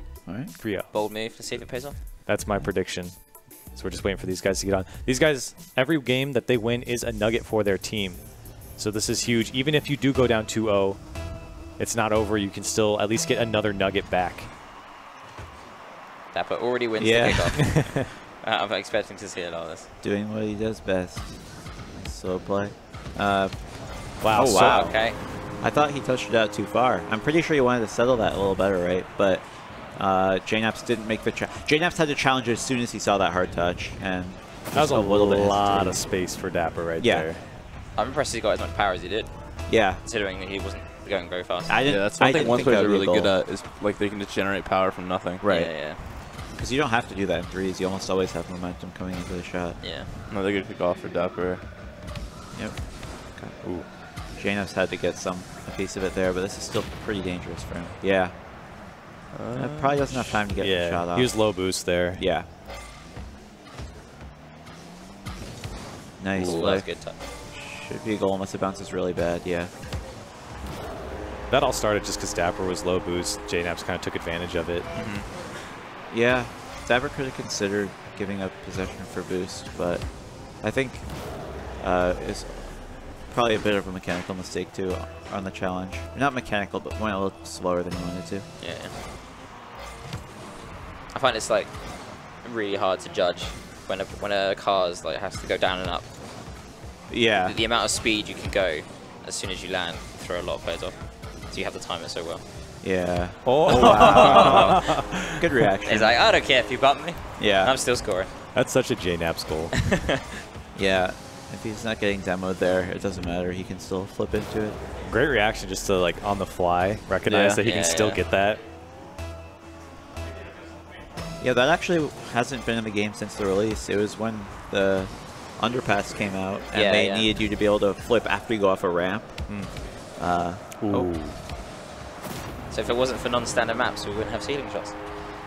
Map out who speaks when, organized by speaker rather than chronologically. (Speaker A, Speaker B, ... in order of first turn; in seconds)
Speaker A: 0.2-0.5, 17.0-17.8, 20.0-36.0, 37.0-37.3, 39.7-40.0, 41.7-43.3, 45.4-49.9, 52.5-58.8, 59.5-62.5, 66.2-69.7, 76.1-88.5, 97.1-97.6, 102.8-106.2, 107.4-107.7, 110.7-114.8, 121.4-131.2
Speaker B: 0.6-0.9, 2.2-14.5, 24.2-24.9, 34.7-37.4, 53.6-53.9, 60.5-62.2, 71.5-74.9, 103.4-105.3, 108.5-109.8, 115.0-118.6, 129.5-129.7, 130.8-131.4
Speaker C: 0.9-2.0, 16.3-19.9, 24.5-25.2, 38.0-42.9, 45.5-46.1, 49.8-50.1, 66.4-67.2, 88.6-89.0, 91.1-96.1, 97.4-102.4, 103.7-104.9, 105.8-108.3, 117.6-118.2, 126.7-127.3, 132.7-134.9
Speaker D: 41.9-45.4, 50.3-51.7, 59.3-60.4, 66.4-66.7, 74.9-75.3, 103.7-104.5, 117.2-117.6